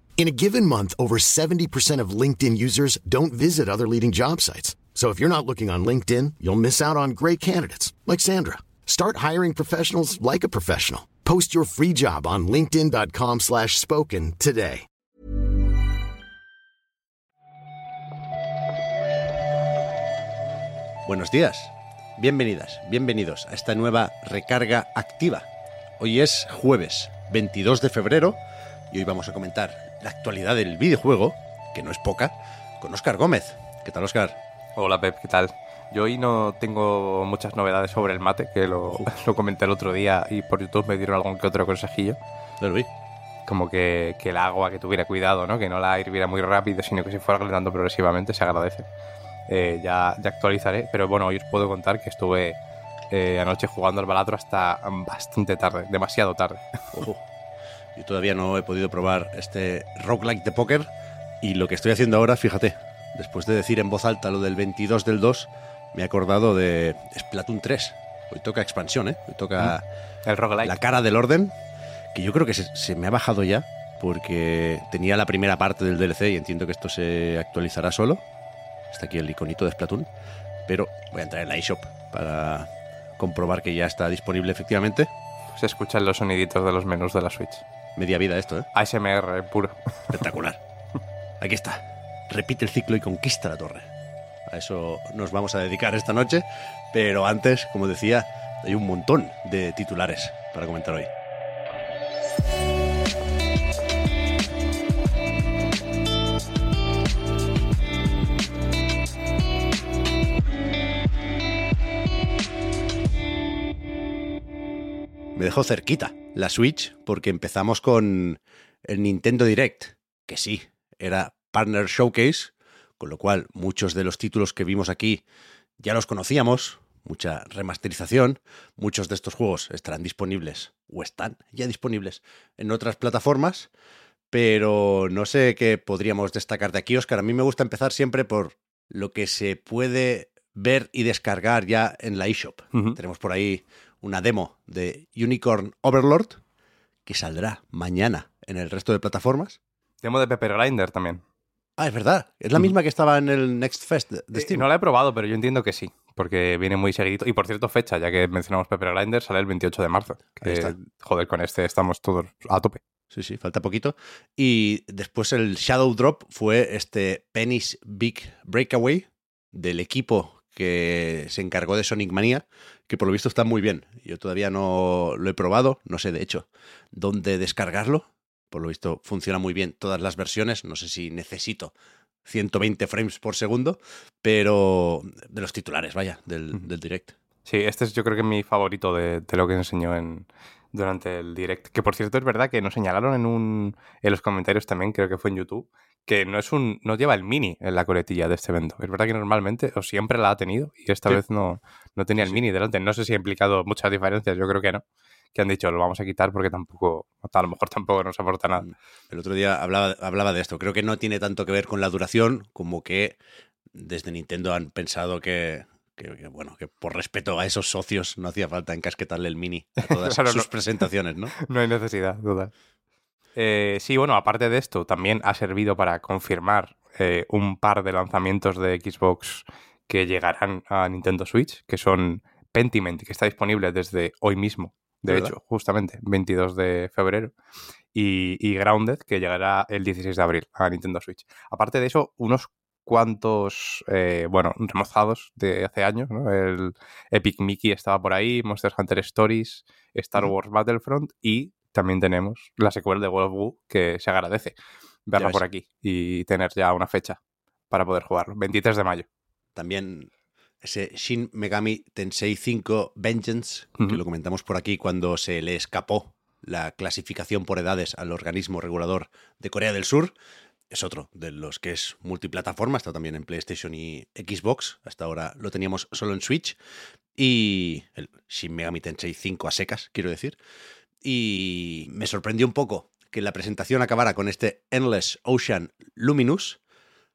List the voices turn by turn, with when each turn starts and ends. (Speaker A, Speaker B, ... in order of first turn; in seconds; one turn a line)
Speaker A: 0.2-14.8
Speaker B: 21.1-25.5
Speaker B: 26.0-28.4
Speaker B: 28.9-34.4
Speaker C: 34.8-42.2
Speaker B: 42.6-42.9
Speaker C: 43.5-48.9
Speaker C: 49.5-52.6
Speaker C: 53.1-56.6
Speaker B: 56.9-57.2
Speaker B: 58.0-60.9
Speaker B: 61.4-69.8
Speaker C: 69.6-70.8
Speaker B: 70.6-71.5
Speaker B: 72.2-78.2
Speaker B: 78.9-80.1
Speaker B: 80.7-82.7
Speaker B: 83.2-85.1
Speaker C: 85.5-87.6
Speaker B: 88.0-88.7
Speaker C: 88.7-89.8
Speaker B: 90.1-90.6
Speaker B: 91.4-93.9
Speaker B: 94.5-101.1
Speaker B: 115.4-125.2
Speaker B: 125.8-133.7
Speaker B: 134.3-146.4
Speaker B: 147.1-149.6
Speaker C: 150.0-151.2
Speaker B: 151.8-154.7
Speaker C: 154.3-162.8
Speaker B: 160.4-160.8
Speaker B: 163.1-181.7
Speaker B: 182.3-187.2
Speaker C: 187.4-204.8
Speaker B: 202.2-202.4
Speaker C: 205.3-208.6
Speaker B: 208.6-213.2
Speaker B: 213.7-221.3
Speaker C: 219.8-220.6
Speaker C: 221.4-222.5
Speaker C: 223.3-237.3
Speaker B: 235.1-235.3
Speaker C: 237.9-257.2
Speaker B: 255.2-255.4
Speaker C: 257.7-259.1
Speaker B: 259.6-260.1
Speaker B: 260.6-270.2
Speaker B: 270.7-276.6
Speaker B: 277.2-280.4
Speaker B: 281.0-286.6